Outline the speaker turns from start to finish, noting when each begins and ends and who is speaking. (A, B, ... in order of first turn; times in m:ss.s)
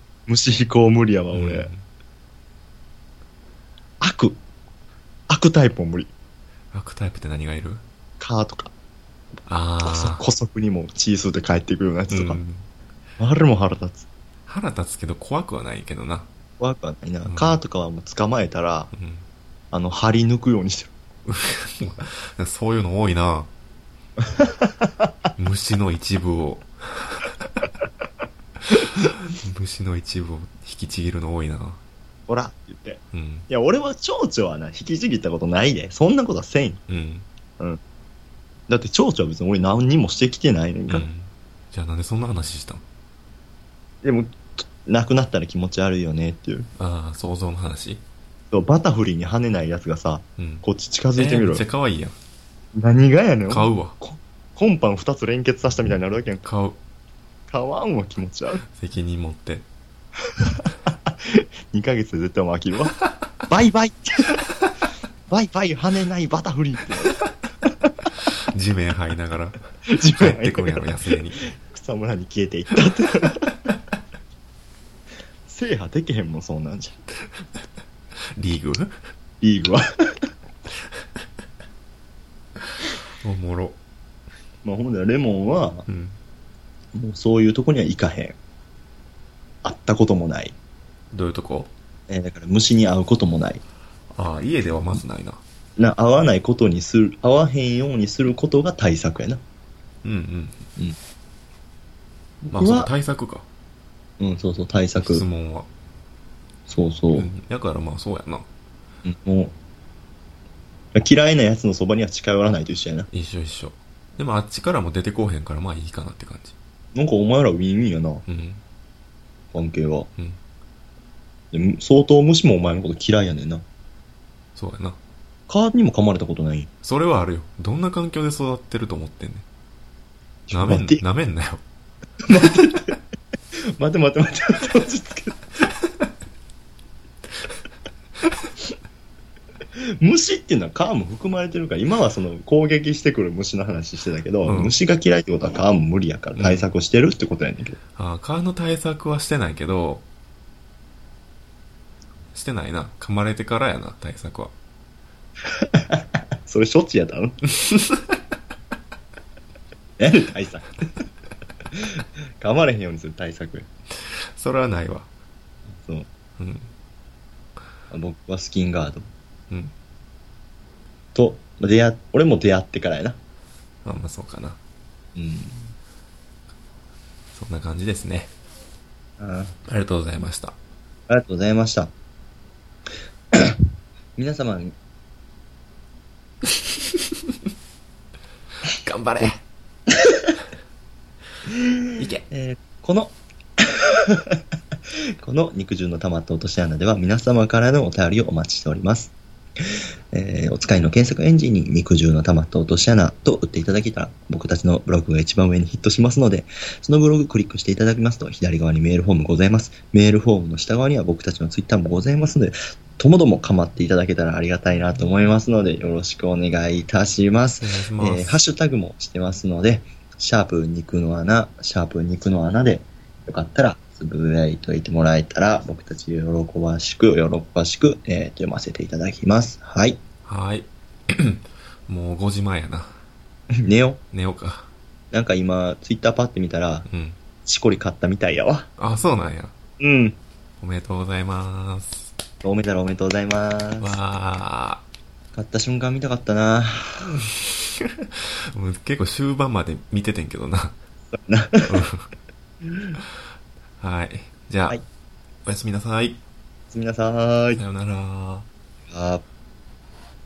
0:00.3-0:01.7 A
0:01.3-0:01.8 B
0:04.0-0:04.4 A
0:05.3-0:06.1 A
0:06.7-0:07.8 B
0:08.2-0:08.7 A
0:09.5-0:10.2 B
0:09.8-0:12.4 A
0:12.1-0:12.7 B
0:13.2-0:14.1 A
0:14.5-0:16.3 B
0:16.6-0:18.9 A
0:17.2-0:17.6 B
0:18.9-0:19.2 B
0:19.7-0:20.9 A
0:21.2-0:23.5 B
0:24.3-0:24.7 A
0:25.4-0:27.6 B
0:28.6-0:31.8 B
0:32.3-0:36.8 A
0:33.1-0:33.5 B
0:36.9-0:37.2 B
0:38.7-0:41.1 A
0:40.9-0:42.8 B
0:44.0-0:46.7 A
0:46.8-0:48.0 B
0:48.5-0:51.6 A
0:50.4-0:50.6 B
0:51.1-0:52.2 B
0:52.7-0:56.4 A
0:53.5-0:54.0 B
0:56.4-0:56.8 B
0:57.5-0:58.6 A
0:58.7-0:59.7 B
1:00.4-1:03.0 A
1:03.5-1:04.5 A
1:05.3-1:07.2 A
1:08.2-1:09.6 B
1:09.9-1:13.6 A
1:10.1-1:11.4 B
1:15.5-1:17.0 A
1:18.3-1:19.0 B
1:19.4-1:20.3 A
1:23.2-1:23.8 B
1:24.6-1:25.8 A
1:25.9-1:26.2 B
1:26.9-1:28.4 A
1:29.6-1:30.5 A
1:31.1-1:31.7 B
1:32.1-1:33.6 A
1:34.1-1:35.4 B
1:35.8-1:39.4 A
1:40.0-1:40.6 B
1:42.4-1:42.9 A
1:42.5-1:43.4 B
1:44.2-1:45.2 A
1:45.0-1:45.7 B
1:46.7-1:47.3 A
1:47.1-1:48.4 B
1:49.0-1:49.5 A
1:50.9-1:53.1 A
1:53.1-1:56.5 B
1:56.9-1:58.2 A
1:58.3-1:58.6 B
1:59.5-2:00.1 A
2:01.5-2:03.6 A
2:04.6-2:05.0 B
2:05.5-2:06.7 A
2:06.8-2:09.4 B
2:10.5-2:11.0 A
2:10.5-2:11.6 B
2:12.2-2:13.0 A
2:13.8-2:15.4 A
2:19.8-2:27.8 A
2:24.4-2:24.8 B
2:26.4-2:26.7 B
2:28.0-2:30.0 B
2:32.3-2:34.5 B
2:35.6-2:37.4 A
2:37.6-2:38.2 B
2:40.0-2:40.7 A
2:41.7-2:43.6 A
2:44.0-2:45.1 B
2:45.8-2:46.1 A
2:46.4-2:46.7 B
2:47.9-2:49.1 A
2:51.1-2:53.2 A
2:53.8-2:54.6 B
2:55.2-2:55.7 A
2:57.3-2:58.3 B
2:59.2-2:59.5 A
2:59.6-3:00.6 B
3:01.1-3:01.9 A
3:04.2-3:04.7 A
3:08.7-3:09.4 B
3:11.5-3:14.4 A
3:12.0-3:12.2 B
3:15.2-3:19.1 A
3:20.1-3:50.0 A
3:37.5-3:38.4 B
3:50.2-3:53.0 B
3:53.6-3:54.0 A
3:54.1-3:54.7 B
3:55.1-3:56.9 A
3:56.9-3:57.2 B
3:57.4-3:58.7 A
3:58.8-3:59.5 B
3:59.8-4:00.2 A
4:00.6-4:02.1 B
4:02.4-4:04.0 A
4:03.8-4:04.8 B
4:05.3-4:07.1 A
4:07.1-4:10.8 B
4:11.1-4:11.9 A
4:11.7-4:12.1 B
4:12.7-4:13.0 A
4:13.8-4:14.8 B
4:15.4-4:16.2 B
4:16.7-4:17.6 A
4:17.6-4:18.5 B
4:18.9-4:19.2 A